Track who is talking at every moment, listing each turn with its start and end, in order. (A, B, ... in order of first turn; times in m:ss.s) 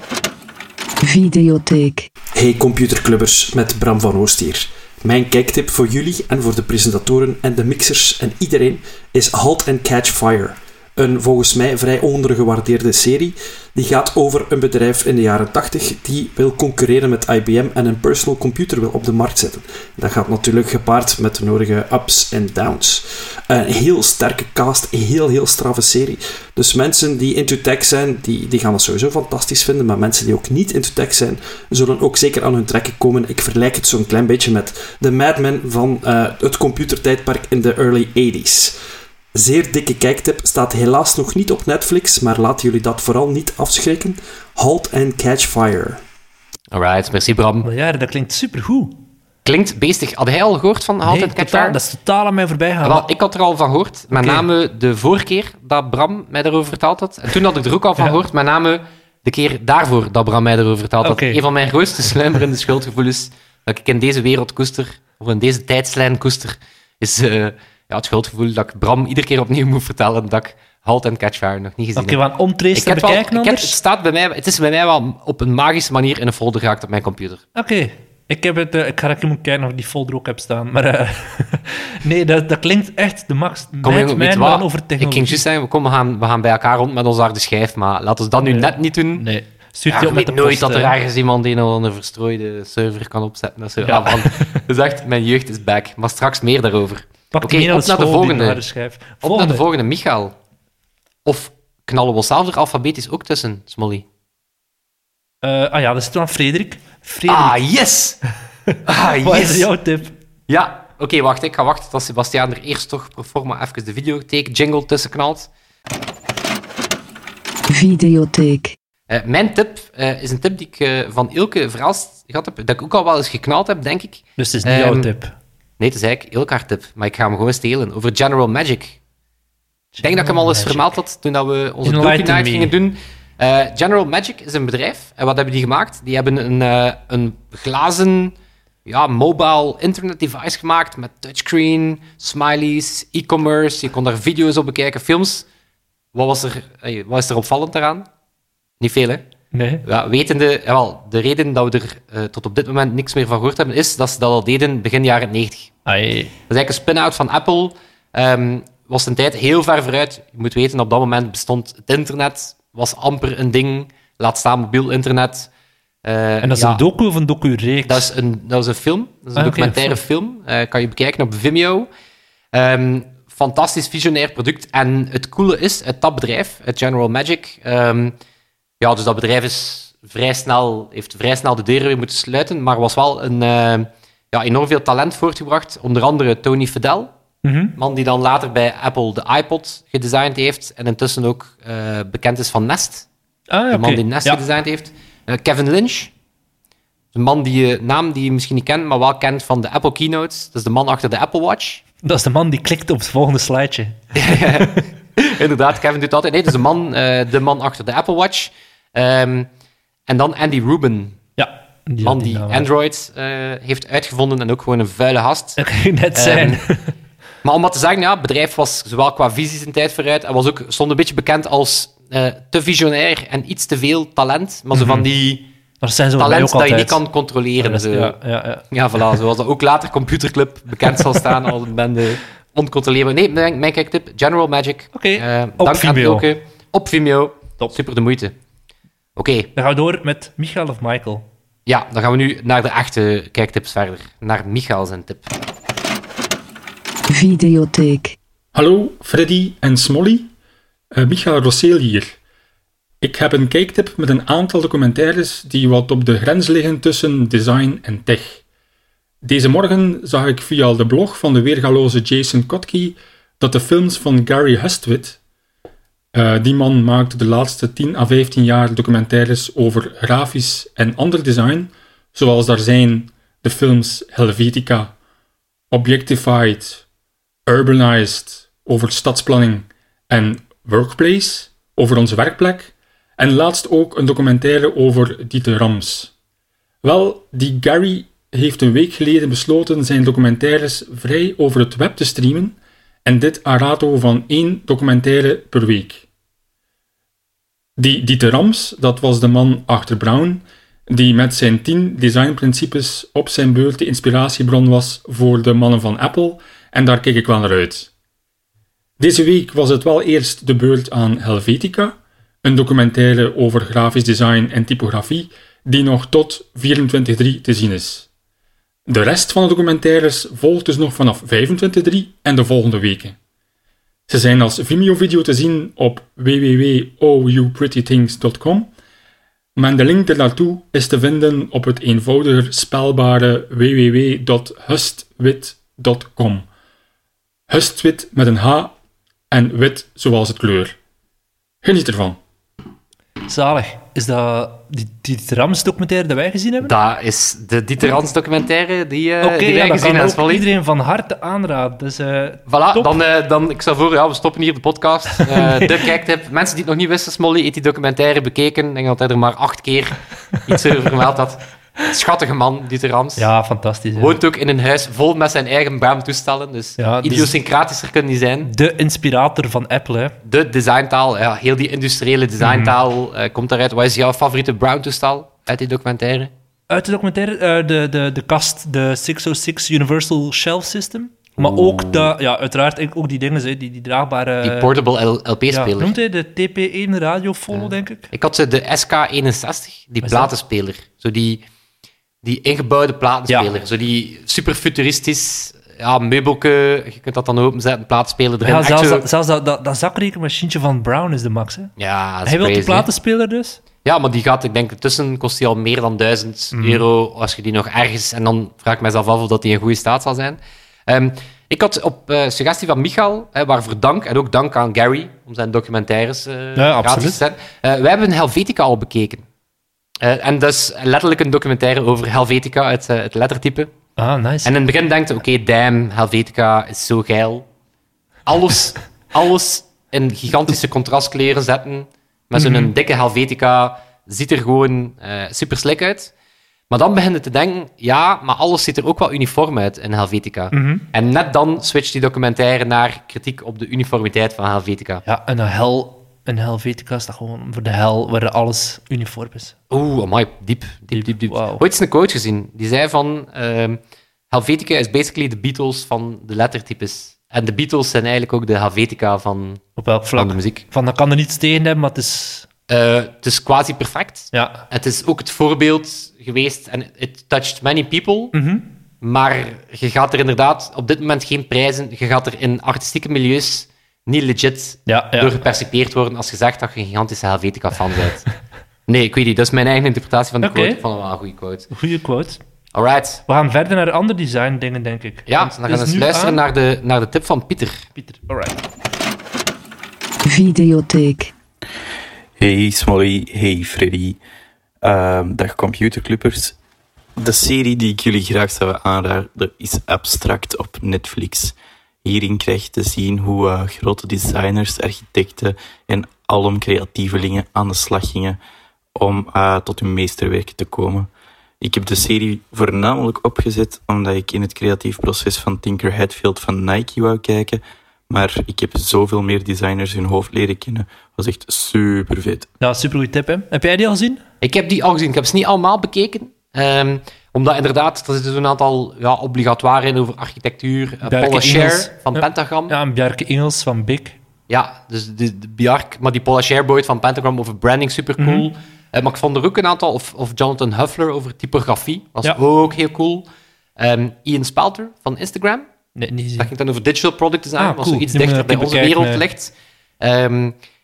0:01.0-0:02.1 A
0:02.3-0:38.8 B
0:39.4-0:46.0 B
0:46.7-0:47.6 C
0:47.6-0:49.0 D
0:49.4-0:51.8 C
0:51.0-0:53.0 D
0:52.8-1:12.2 C
0:54.1-0:54.4 D
1:01.0-1:01.4 D
1:12.0-1:13.7 D
1:12.7-1:17.4 C
1:17.5-1:25.4 D
1:23.8-1:29.2 C
1:28.4-1:30.9 D
1:29.9-1:38.6 C
1:33.8-1:34.4 D
1:37.3-1:39.6 D
1:39.2-1:40.3 C
1:41.2-1:44.0 C
1:45.4-1:47.5 D
1:47.3-1:48.2 C
1:48.7-1:50.1 D
1:48.8-1:49.7 C
1:50.5-1:55.5 C
1:57.7-1:58.8 A
1:59.1-2:05.1 C
2:04.4-2:05.3 D
2:05.8-2:09.0 C
2:09.9-2:11.0 D
2:10.0-2:18.3 C
2:11.8-2:12.7 D
2:18.8-2:25.4 C
2:26.1-2:28.0 C
2:28.8-2:29.2 C
2:29.5-2:29.8 D
2:29.8-2:35.7 C
2:35.8-2:36.3 D
2:36.5-2:45.5 C
2:46.0-2:46.8 C
2:46.4-2:48.1 D
2:47.8-2:51.9 C
2:49.4-2:50.0 D
2:52.5-2:58.1 C
2:58.8-3:07.1 C
3:07.4-3:07.7 D
3:07.8-3:13.1 C
3:13.5-3:14.4 D
3:13.7-3:16.1 C
3:17.1-3:21.8 C
3:22.0-3:24.8 D
3:24.2-3:29.5 C
3:30.1-3:31.2 C
3:31.4-3:32.7 D
3:32.0-3:35.6 C
3:35.6-3:36.8 D
3:36.1-3:36.6 C
3:37.4-3:45.4 C
3:44.7-3:45.1 D
3:45.8-3:47.0 D
3:46.2-3:48.2 C
3:47.6-3:48.6 D
3:48.7-3:58.3 C
3:50.9-3:51.3 D
3:54.9-3:56.2 D
3:59.2-3:59.5 C
3:59.6-4:01.2 D
4:01.6-4:05.3 C
4:07.1-4:08.2 A
4:08.5-4:10.3 E
4:10.9-4:12.2 E
4:13.0-4:18.4 E
4:19.2-4:25.2 E
4:26.1-4:34.9 E
4:35.7-4:36.8 E
4:37.4-4:46.1 E
4:46.8-4:56.0 E
4:57.8-5:07.9 E
5:09.0-5:18.1 E
5:18.9-5:23.1 E
5:24.1-5:28.7 E
5:29.6-5:36.5 E
5:37.5-5:38.7 E
5:39.3-5:40.8 E
5:41.6-5:42.2 E
5:43.3-5:46.7 D
5:46.6-5:50.4 C
5:49.2-5:52.9 D
5:52.5-6:03.3 C
5:55.3-5:55.7 D
6:03.2-6:04.2 D
6:03.9-6:08.5 C
6:06.8-6:07.3 D
6:08.4-6:10.1 D
6:10.2-6:16.3 C
6:12.4-6:12.7 D
6:16.7-6:24.7 D
6:21.4-6:22.1 C
6:24.4-6:25.9 C
6:25.5-6:28.1 D
6:27.5-6:31.4 C
6:30.0-6:30.3 D
6:32.2-6:39.0 C
6:38.4-6:41.7 D
6:41.8-6:42.9 C
6:42.2-6:43.6 D
6:43.8-6:59.2 C
6:46.5-6:46.8 D
6:56.6-6:57.2 D
7:00.0-7:03.7 C
7:04.0-7:04.5 D
7:04.4-7:07.4 C
7:08.2-7:16.1 C
7:12.4-7:12.7 D
7:16.7-7:25.0 C
7:20.5-7:20.8 D
7:25.0-7:29.5 D
7:29.7-7:33.8 C
7:30.9-7:31.6 D
7:34.3-7:39.6 C
7:39.8-7:42.5 D
7:40.2-7:40.6 C
7:42.7-7:48.3 C
7:44.3-7:44.6 D
7:48.3-7:48.6 D
7:49.0-7:58.2 C
7:54.9-7:55.3 D
7:58.9-8:01.7 C
8:00.4-8:00.8 D
8:01.7-8:02.4 D
8:02.7-8:03.2 C
8:03.3-8:06.4 D
8:05.3-8:07.8 C
8:07.9-8:08.6 D
8:10.2-8:11.3 A
8:12.4-8:14.2 F
8:14.8-8:16.6 F
8:17.2-8:28.4 F
8:28.9-8:31.1 F
8:31.6-8:42.5 F
8:42.6-8:44.2 D
8:44.4-8:52.7 C
8:51.0-8:54.2 D
8:54.5-9:03.2 C
8:58.2-8:58.5 D
9:03.8-9:05.6 C
9:06.0-9:06.5 D
9:06.4-9:10.5 C
9:07.6-9:09.2 D